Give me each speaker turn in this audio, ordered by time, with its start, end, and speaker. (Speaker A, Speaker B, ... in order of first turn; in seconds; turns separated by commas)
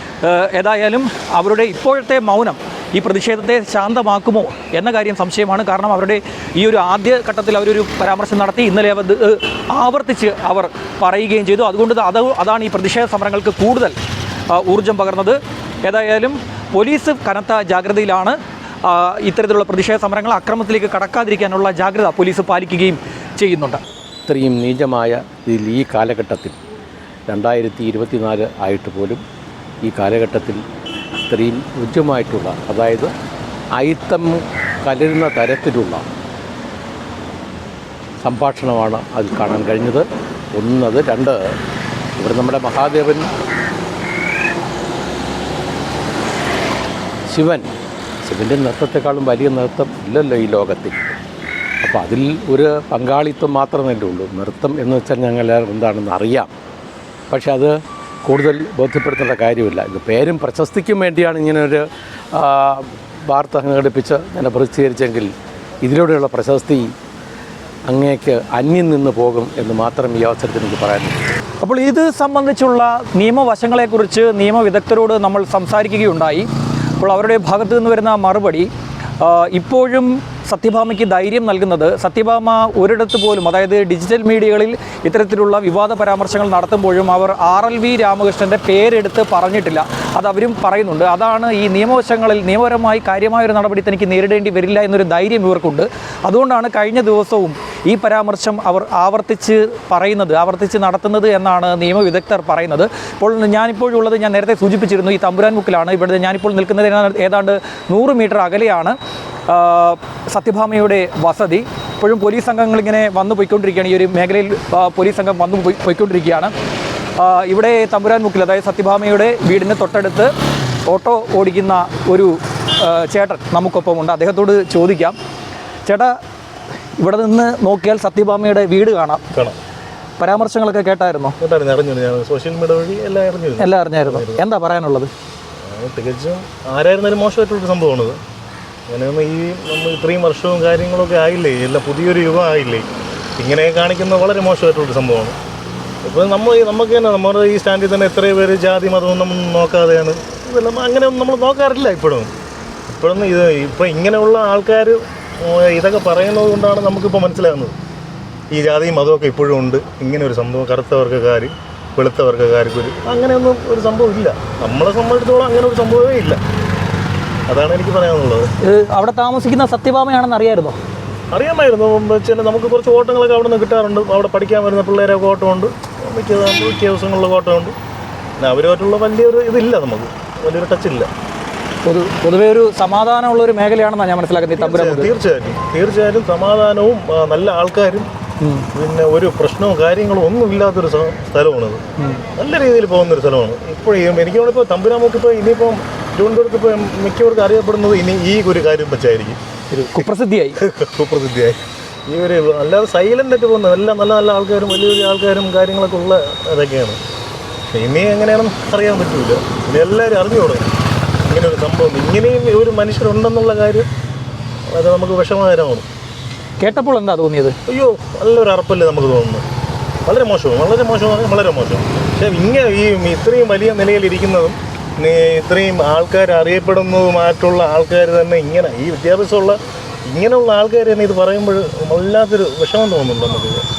Speaker A: 0.2-14.0, Speaker A: 14.5-23.8, Speaker B: 24.3-26.6, Speaker B: 27.3-29.2, Speaker B: 29.9-30.6, Speaker B: 31.2-33.1, Speaker B: 33.8-36.1, Speaker B: 38.2-41.4, Speaker B: 42.2-43.3, Speaker B: 47.3-47.7, Speaker B: 48.2-51.2, Speaker B: 51.8-56.5, Speaker B: 57.3-57.7, Speaker B: 58.2-61.8, Speaker B: 62.3-65.3, Speaker B: 65.8-66.8, Speaker B: 67.9-71.3, Speaker A: 71.6-76.5, Speaker A: 77.0-78.7, Speaker A: 79.2-109.0, Speaker A: 109.5-116.5, Speaker A: 117.2-120.3, Speaker A: 120.9-125.2, Speaker A: 125.9-126.2, Speaker A: 127.0-129.2, Speaker A: 130.2-131.4, Speaker C: 131.4-134.4, Speaker A: 133.6-135.1, Speaker C: 135.6-138.2, Speaker C: 138.9-142.9, Speaker C: 143.4-145.4, Speaker C: 146.0-152.3, Speaker C: 152.9-157.8, Speaker C: 158.5-166.4, Speaker C: 167.5-168.5, Speaker A: 168.6-170.8, Speaker C: 171.3-177.8, Speaker C: 178.4-181.1, Speaker A: 181.8-185.1, Speaker C: 184.6-188.1, Speaker A: 188.4-188.7, Speaker C: 188.7-191.8, Speaker A: 192.0-192.2, Speaker C: 192.4-199.4, Speaker A: 199.7-200.6, Speaker C: 200.6-207.0, Speaker C: 207.7-210.7, Speaker C: 211.2-213.9, Speaker C: 214.7-215.9, Speaker A: 216.6-217.6, Speaker C: 217.7-219.4, Speaker C: 220.1-233.6